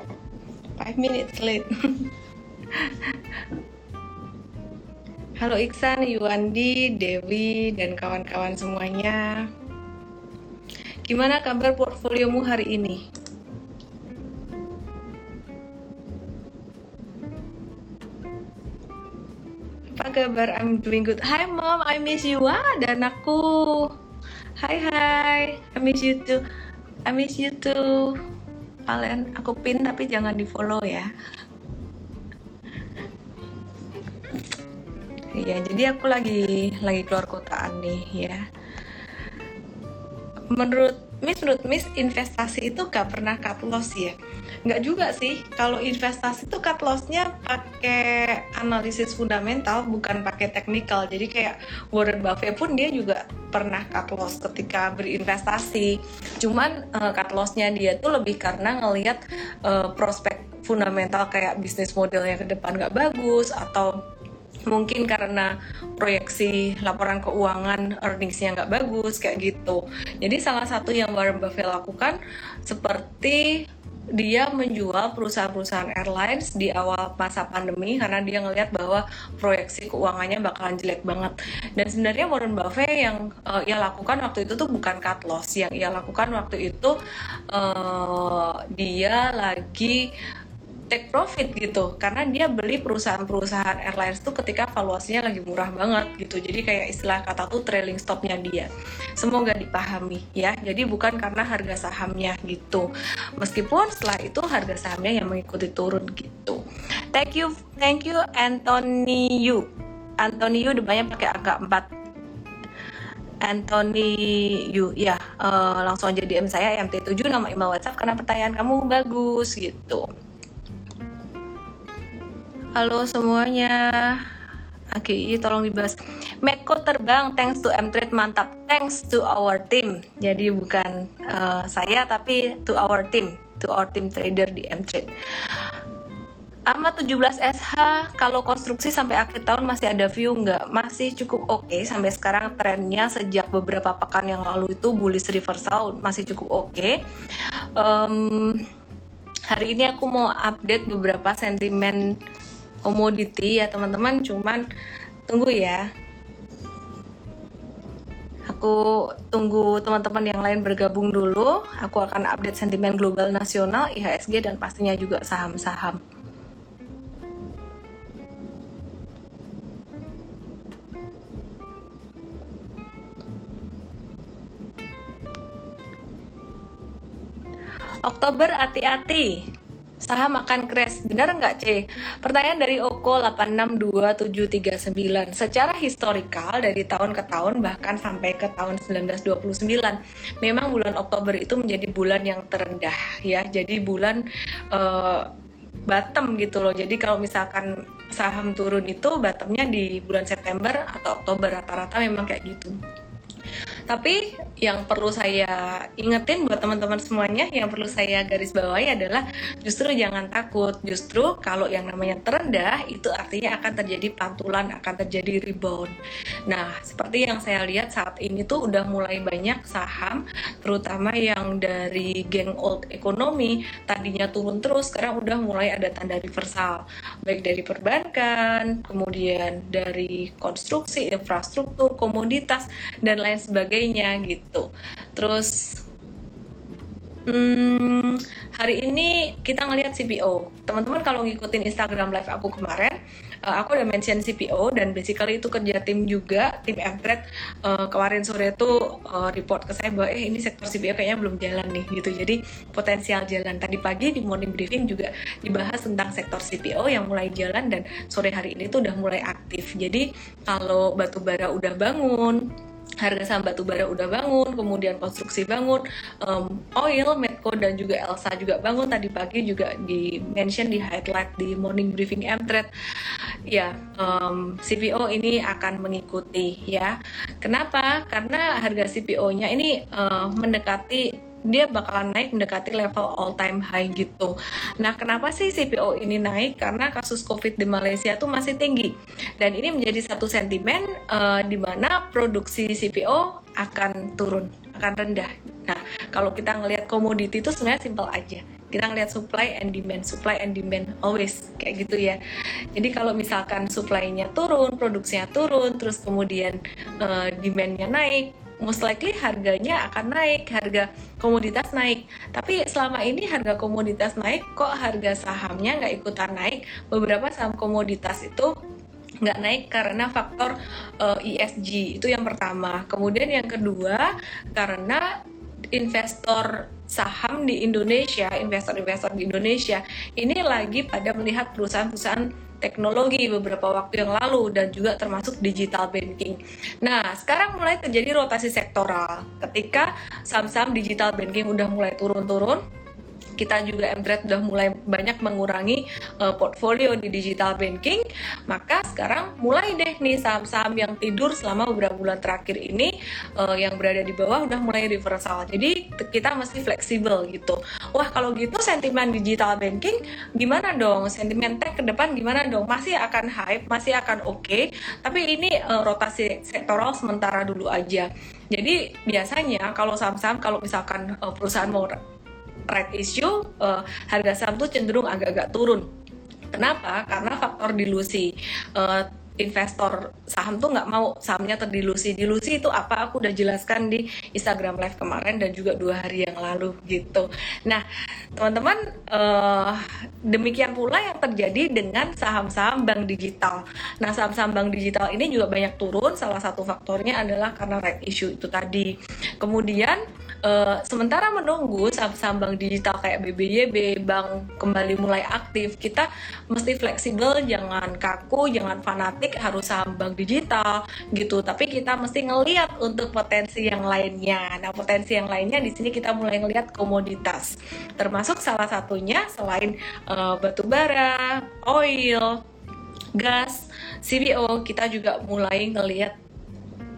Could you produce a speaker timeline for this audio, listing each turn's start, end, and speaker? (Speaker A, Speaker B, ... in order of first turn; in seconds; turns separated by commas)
Speaker A: 0.8-2.1, Speaker A: 2.7-3.1, Speaker A: 5.4-9.5, Speaker A: 11.1-13.0, Speaker A: 19.9-23.9, Speaker A: 24.6-26.4, Speaker A: 27.1-28.2, Speaker A: 28.9-31.1, Speaker A: 35.3-38.4, Speaker A: 40.5-63.9, Speaker A: 64.7-73.7, Speaker A: 74.2-87.0, Speaker A: 87.5-90.1, Speaker A: 90.9-106.6, Speaker A: 107.1-109.7, Speaker A: 110.2-111.9, Speaker A: 113.4-120.1, Speaker A: 122.8-124.3, Speaker A: 124.9-135.1, Speaker A: 136.7-147.0, Speaker A: 147.8-148.6, Speaker A: 149.5-152.1, Speaker A: 152.8-154.6, Speaker A: 155.3-155.9, Speaker A: 158.5-166.0, Speaker A: 178.1-179.4, Speaker A: 180.0-195.3, Speaker A: 195.9-202.7, Speaker A: 203.9-215.9, Speaker A: 216.5-235.8, Speaker A: 237.3-262.4, Speaker A: 263.0-272.7, Speaker A: 273.5-302.2, Speaker A: 302.7-318.5, Speaker A: 319.2-325.1, Speaker A: 325.7-342.6, Speaker A: 343.4-372.0, Speaker A: 372.7-375.9, Speaker A: 376.5-387.9, Speaker A: 388.4-422.4, Speaker A: 423.2-426.2